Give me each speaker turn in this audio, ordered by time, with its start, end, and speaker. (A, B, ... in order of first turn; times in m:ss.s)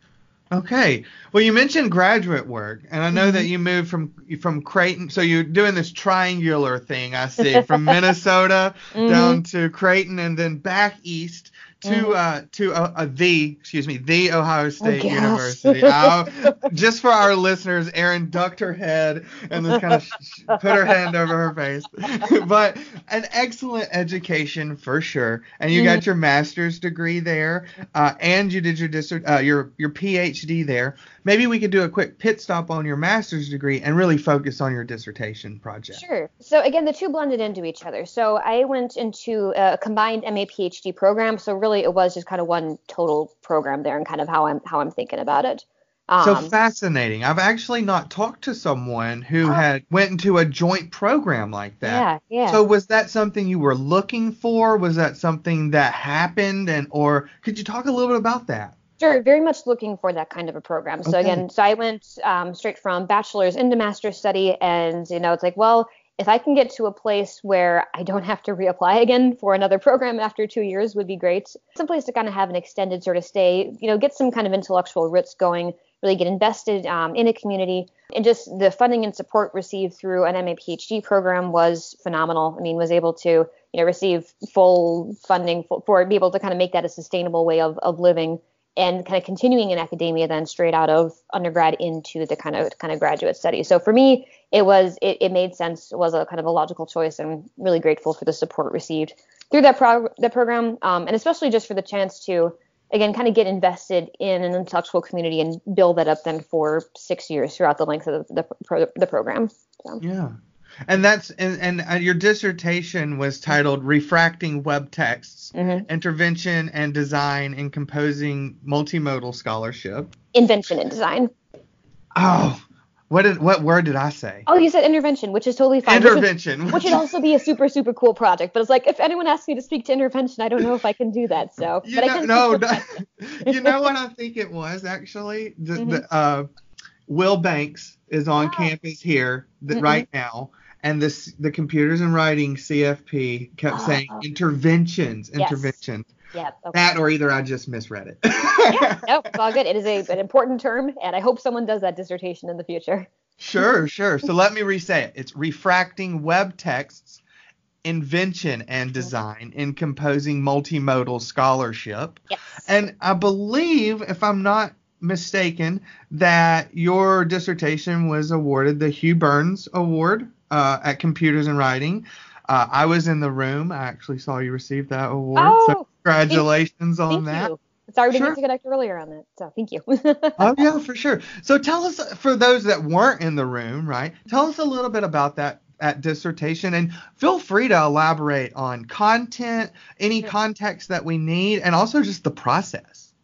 0:00.5-0:36.0 A
0:03.1-0:03.5 B
0:07.4-0:08.0 B
0:08.9-0:09.4 B
0:11.8-0:12.2 B
0:14.8-0:16.5 B
0:19.7-0:20.0 B
0:25.7-0:26.0 B
0:35.9-0:46.5 B
0:46.2-0:58.8 A
0:51.8-0:52.6 B
0:59.0-1:50.0 B
1:01.0-1:01.4 A
1:50.0-2:00.2 A
1:55.6-1:55.9 B
2:00.3-2:01.3 B
2:02.2-2:04.5 A
2:04.5-2:12.9 B
2:05.9-2:07.2 A
2:11.8-2:16.5 A
2:13.4-2:13.8 B
2:15.8-2:16.0 B
2:17.1-2:26.1 A
2:18.4-2:18.7 B
2:19.7-2:20.0 B
2:23.7-2:24.2 B
2:25.4-2:25.8 B
2:26.3-2:26.9 B
2:26.7-2:29.1 A
2:28.7-2:33.7 B
2:33.4-2:37.2 A
2:37.8-2:57.5 A
2:42.3-2:42.7 B
2:55.4-2:56.5 B
2:57.1-3:00.6 B
2:58.1-2:58.4 A
3:00.4-3:13.1 A